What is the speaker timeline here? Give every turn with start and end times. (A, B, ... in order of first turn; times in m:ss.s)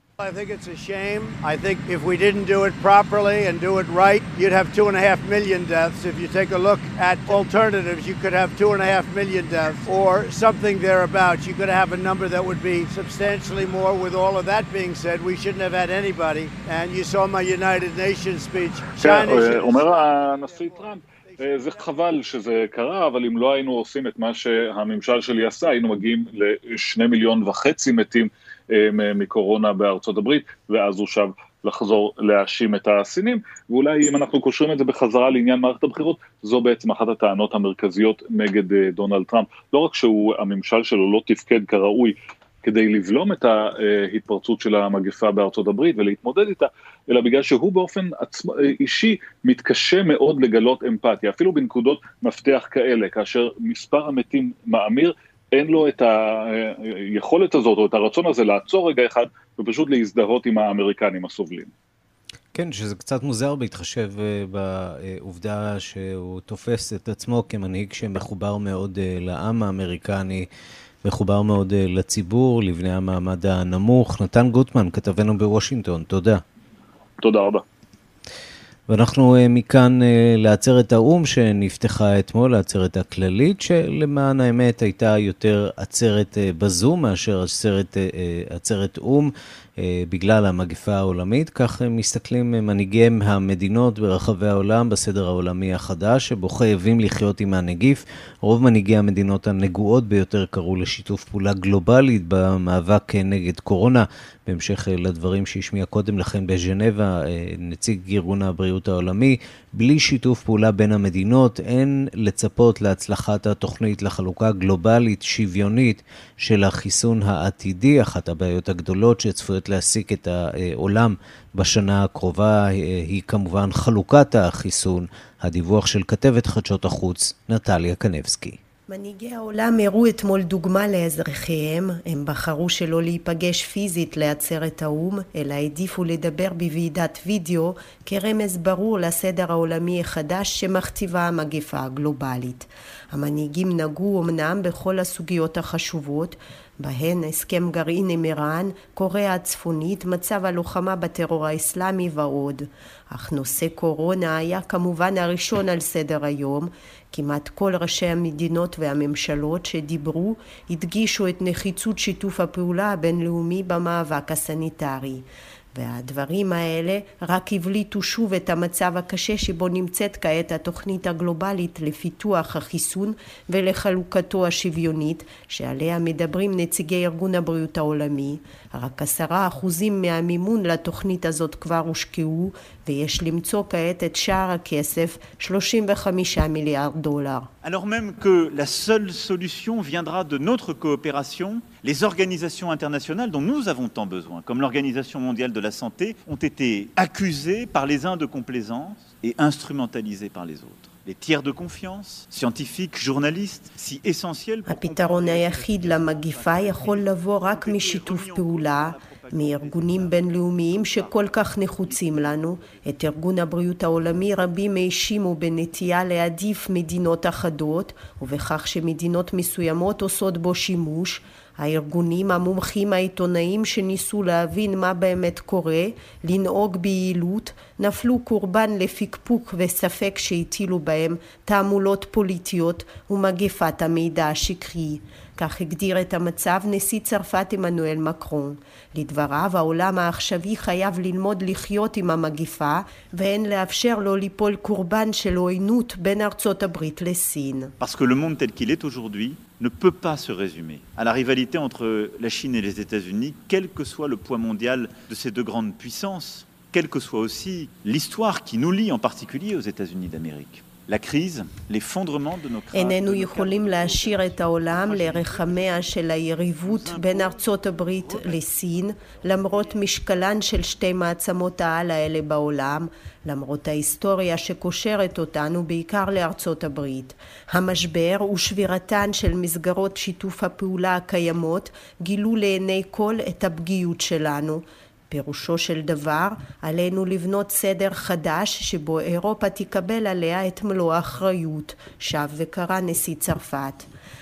0:00.2-0:22.3 A
0:19.0-1:01.7 B
1:02.5-1:10.5 C
1:11.0-1:16.4 C
1:17.2-1:17.6 B
1:18.9-2:08.6 C
2:08.9-3:07.5 D
3:07.6-3:32.9 E
3:24.7-4:07.7 D
4:07.8-4:26.0 E
4:22.7-4:53.9 D
4:26.6-4:29.8 E